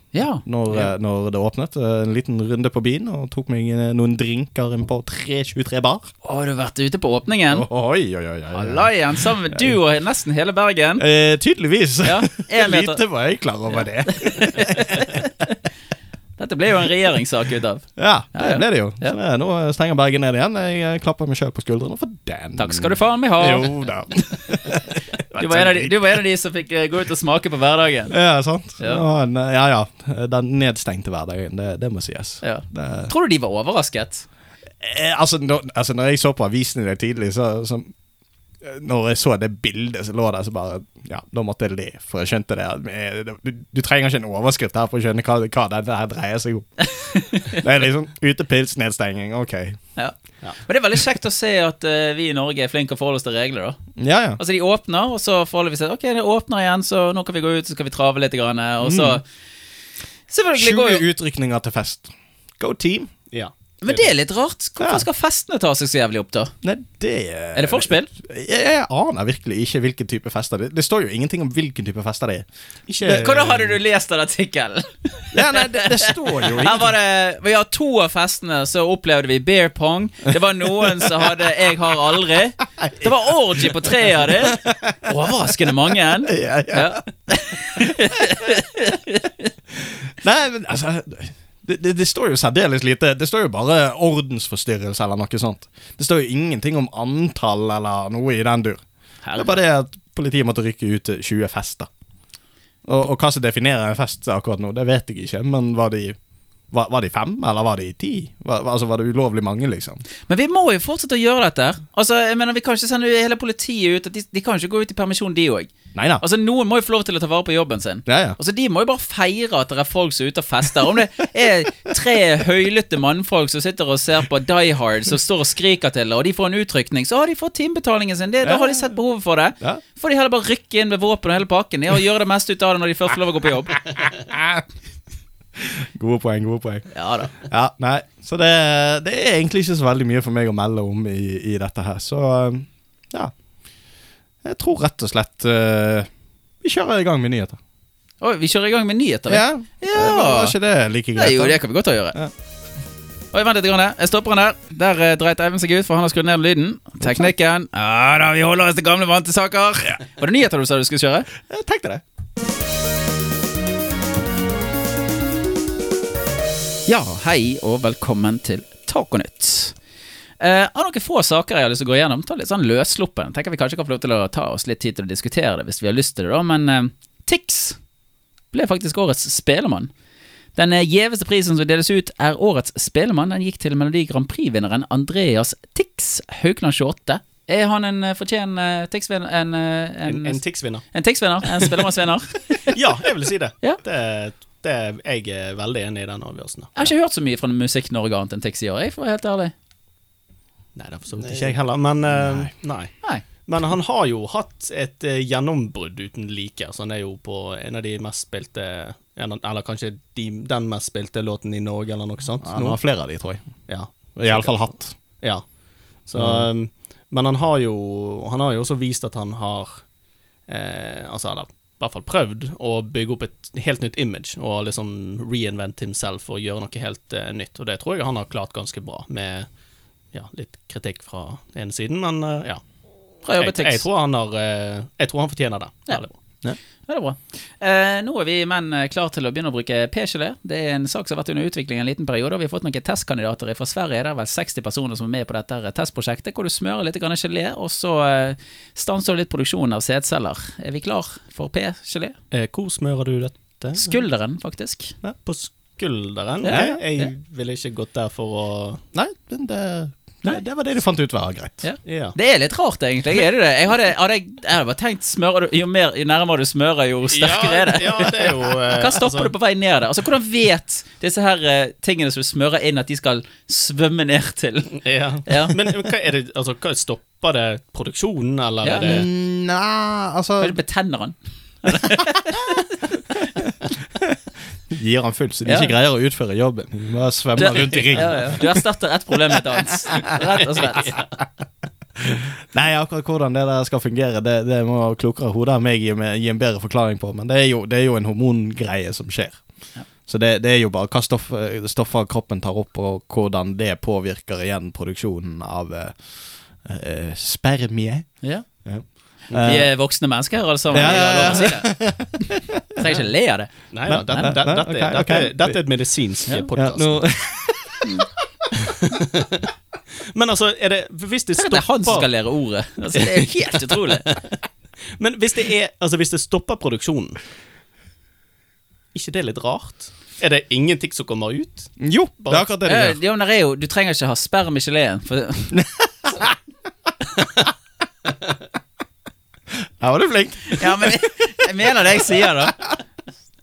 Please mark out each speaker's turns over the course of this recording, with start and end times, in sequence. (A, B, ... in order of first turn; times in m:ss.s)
0:00.1-0:00.9 A
0:00.3-0:06.1 B
0:06.2-0:07.7 A
0:07.5-0:09.7 B
0:08.5-0:11.0 A
0:11.0-0:15.2 B
0:12.0-0:13.0 A
0:14.1-0:15.3 A
0:16.4-0:19.2 A
0:18.0-0:26.2 B
0:22.6-0:23.8 A
0:25.4-0:28.2 A
0:28.1-0:33.1 B
0:32.4-0:34.2 A
0:34.8-0:37.9 B
0:38.6-0:46.7 B
0:46.9-0:47.6 A
0:47.5-0:49.8 B
0:50.0-0:53.8 A
0:54.0-0:54.4 B
0:54.4-0:59.2 A
0:58.8-0:59.2 B
1:00.3-1:01.0 A
1:00.5-1:03.1 B
1:03.3-1:04.1 C
1:03.8-1:06.5 A
1:04.8-1:05.0 B
1:06.6-1:12.5 B
1:07.5-1:08.1 A
1:12.9-1:13.7 C
1:13.0-1:13.4 B
1:13.0-1:29.5 A
1:15.3-1:16.9 B
1:22.8-1:23.1 B
1:24.4-1:24.9 B
1:26.2-1:27.0 B
1:29.8-1:38.8 B
1:39.2-1:39.6 A
1:39.4-1:41.9 B
1:42.8-1:46.2 B
1:46.7-1:50.0 B
1:50.3-2:13.9 A
1:55.9-1:56.2 B
1:58.0-1:58.4 B
2:08.4-2:08.9 B
2:14.3-2:14.6 B
2:15.6-2:23.3 B
2:16.9-2:17.3 A
2:24.4-2:26.1 B
2:26.6-2:27.6 B
2:28.2-2:30.6 A
2:29.3-2:31.6 B
2:31.1-2:32.2 A
2:33.3-2:41.3 A
2:37.0-2:37.3 B
2:41.5-2:42.0 B
2:46.8-2:49.8 A
2:50.4-2:57.8 A
2:58.5-2:59.9 A
3:00.6-3:10.4 A
3:10.1-3:10.8 C
3:10.9-3:12.8 A
3:12.7-3:16.9 C
3:16.8-3:19.5 A
3:20.7-3:32.8 C
3:22.1-3:22.5 B
3:32.4-3:33.4 B
3:33.7-3:39.8 C
3:34.2-3:35.0 B
3:36.1-3:36.5 B
3:40.5-3:49.5 C
3:50.1-3:52.6 C
3:53.2-3:53.8 A
3:53.3-3:56.1 C
3:56.9-4:12.2 A
4:12.3-4:14.0 C
4:13.7-4:14.9 A
4:15.0-4:18.8 C
4:16.4-4:17.1 A
4:16.5-4:16.8 B
4:18.9-4:21.6 B
4:21.6-4:35.6 A
4:21.8-4:22.1 C
4:27.1-4:29.3 C
4:34.7-4:39.1 C
4:38.6-4:38.9 A
4:38.8-4:40.6 B
4:40.4-4:43.2 A
4:44.7-4:48.6 B
4:45.4-4:45.7 A
4:47.4-4:51.0 A
4:52.0-4:59.4 B
5:00.1-5:09.7 B
5:09.0-5:11.8 A
5:10.7-5:12.8 B
5:10.8-5:11.4 C
5:12.8-5:14.4 A
5:13.7-5:17.1 C
5:13.9-5:15.6 B
5:16.5-5:17.9 B
5:18.6-5:19.5 C
5:20.1-5:22.1 C
5:21.4-5:24.1 A
5:23.0-5:23.3 C
5:25.0-5:27.2 C
5:28.9-5:32.5 C
5:31.8-5:33.0 B
5:32.6-5:35.6 A
5:35.5-5:36.3 B
5:39.8-5:41.1 B
5:40.5-5:42.6 A
5:41.9-5:42.7 B